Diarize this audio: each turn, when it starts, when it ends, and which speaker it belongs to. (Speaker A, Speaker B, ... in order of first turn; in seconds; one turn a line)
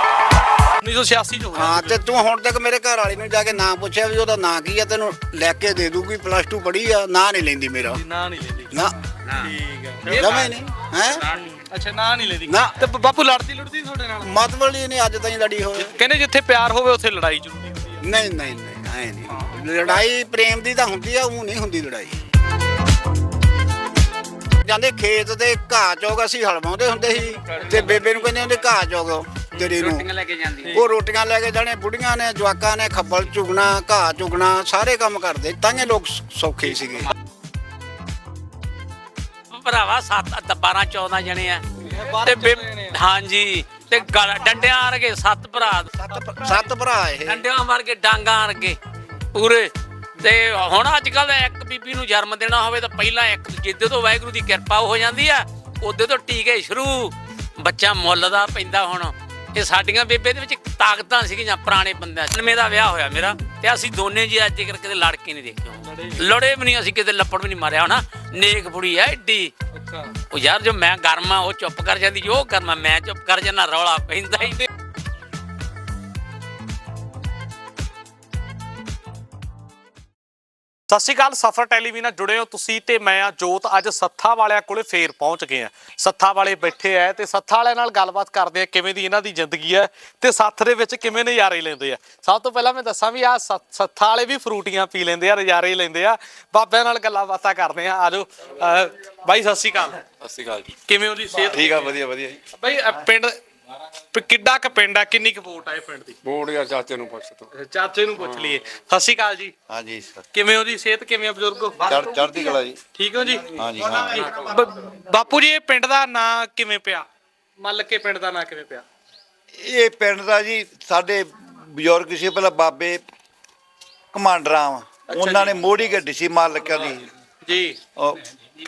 Speaker A: 0.8-2.0
Speaker B: 1.6-8.0
Speaker A: 8.0-8.7
Speaker A: 9.4-10.5
Speaker B: 10.1-11.2
Speaker A: 11.3-14.3
Speaker B: 12.5-12.8
Speaker B: 14.2-15.9
Speaker A: 15.8-18.1
Speaker B: 18.0-22.1
Speaker B: 24.6-30.1
Speaker A: 27.7-28.0
Speaker A: 29.5-29.8
Speaker C: 29.9-30.3
Speaker A: 30.6-30.9
Speaker B: 30.7-37.1
Speaker C: 39.5-45.9
Speaker A: 41.8-43.0
Speaker B: 46.0-47.4
Speaker C: 47.2-48.8
Speaker C: 49.3-49.7
Speaker C: 50.2-69.5
Speaker A: 65.8-66.3
Speaker A: 69.7-70.1
Speaker C: 70.3-74.6
Speaker A: 80.9-100.0
Speaker D: 100.2-100.7
Speaker A: 100.8-103.4
Speaker D: 101.4-102.4
Speaker A: 104.1-106.2
Speaker D: 106.2-107.5
Speaker A: 107.5-109.5
Speaker E: 109.7-110.3
Speaker A: 110.3-117.0
Speaker E: 111.8-112.8
Speaker E: 113.5-114.2
Speaker A: 117.6-118.8
Speaker E: 119.5-123.0
Speaker E: 124.1-127.1
Speaker A: 125.1-125.6
Speaker A: 127.4-127.8
Speaker E: 128.0-128.2